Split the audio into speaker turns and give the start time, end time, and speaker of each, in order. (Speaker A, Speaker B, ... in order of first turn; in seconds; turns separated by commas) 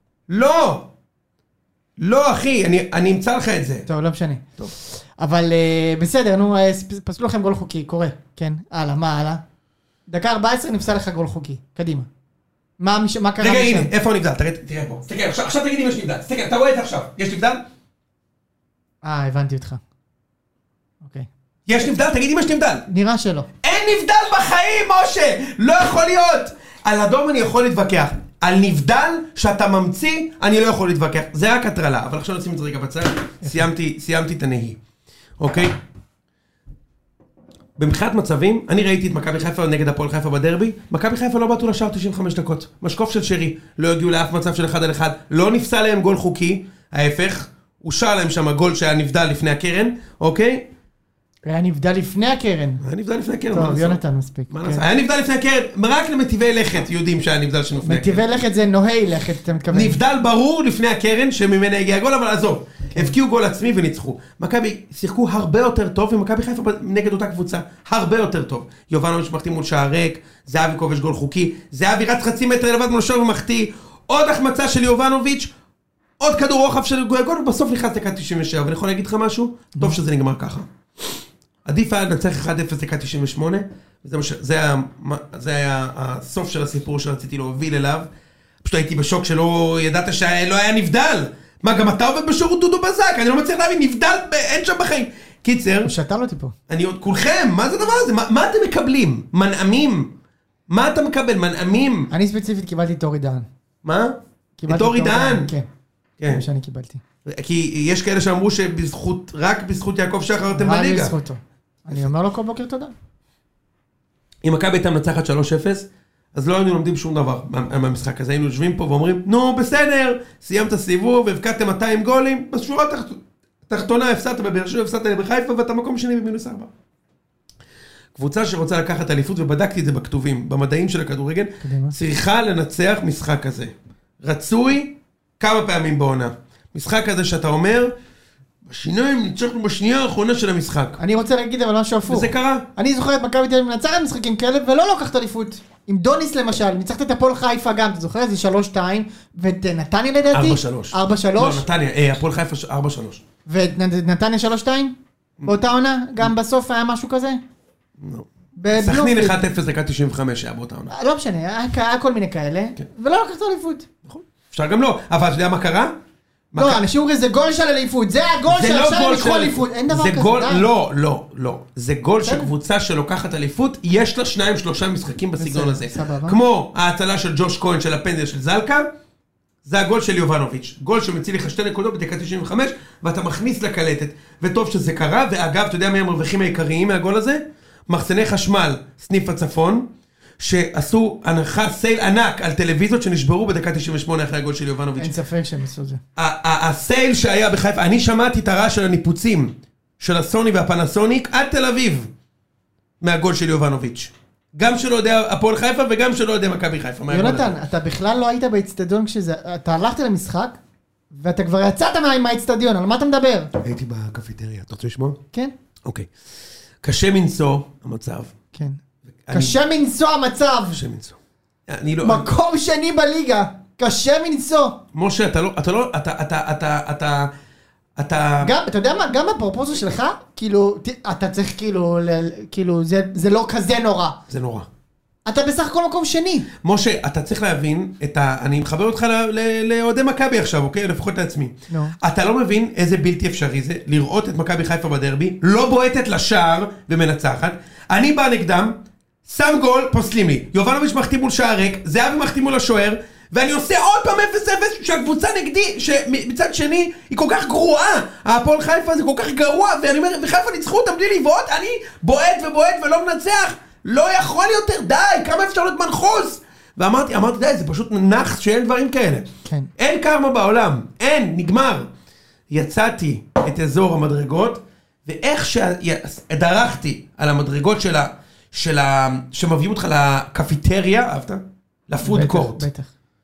Speaker A: 0.3-0.9, Speaker A: 2.0-3.9, Speaker B: 3.9-9.4, Speaker B: 10.1-12.1, Speaker B: 12.8-13.9, Speaker A: 13.4-17.6, Speaker B: 19.0-19.8, Speaker B: 21.0-21.3, Speaker A: 21.7-22.8, Speaker B: 22.9-23.5, Speaker A: 23.6-34.8, Speaker A: 35.4-35.8, Speaker A: 37.8-50.7, Speaker B: 51.5-52.8, Speaker A: 52.8-58.2, Speaker B: 53.5-54.8, Speaker B: 57.8-60.0, Speaker A: 59.7-75.5, Speaker A: 76.2-80.7, Speaker A: 81.6-88.1, Speaker A: 88.6-95.9, Speaker B: 95.8-96.5, Speaker A: 96.7-100.1, Speaker A: 100.7-102.1, Speaker B: 102.1-103.5, Speaker A: 103.8-105.5, Speaker B: 104.6-105.7, Speaker A: 106.2-106.4, Speaker B: 106.2-107.0, Speaker A: 107.2-111.1, Speaker B: 110.5-112.9, Speaker A: 114.4-126.7, Speaker A: 128.1-137.9, Speaker B: 131.6-132.0, Speaker A: 138.6-141.0, Speaker B: 141.0-151.7, Speaker A: 142.1-142.7, Speaker A: 150.3-153.2, Speaker B: 153.5-157.4, Speaker A: 158.0-160.9, Speaker B: 158.6-159.4, Speaker B: 160.9-163.9, Speaker A: 164.1-165.9, Speaker A: 166.5-166.8, Speaker B: 166.6-170.7, Speaker A: 168.5-178.8, Speaker B: 172.2-172.5, Speaker B: 175.4-176.4, Speaker A: 179.6-189.9, Speaker A: 190.4-195.1, Speaker B: 195.0-196.0, Speaker A: 196.2-202.1, Speaker A: 203.0-207.6, Speaker B: 207.1-210.6, Speaker B: 211.1-213.5, Speaker A: 213.6-215.2, Speaker A: 215.8-216.1, Speaker A: 216.8-218.3, Speaker B: 218.5-218.8, Speaker A: 219.2-219.6, Speaker B: 219.3-220.8, Speaker A: 220.7-222.3, Speaker B: 222.0-224.8, Speaker A: 224.9-227.3, Speaker A: 228.0-228.5, Speaker B: 228.4-234.2, Speaker A: 234.3-234.7, Speaker B: 235.2-236.5, Speaker A: 236.6-248.7, Speaker B: 241.7-241.9, Speaker A: 249.2-271.9, Speaker B: 269.4-269.7, Speaker A: 272.5-282.7, Speaker B: 282.0-282.9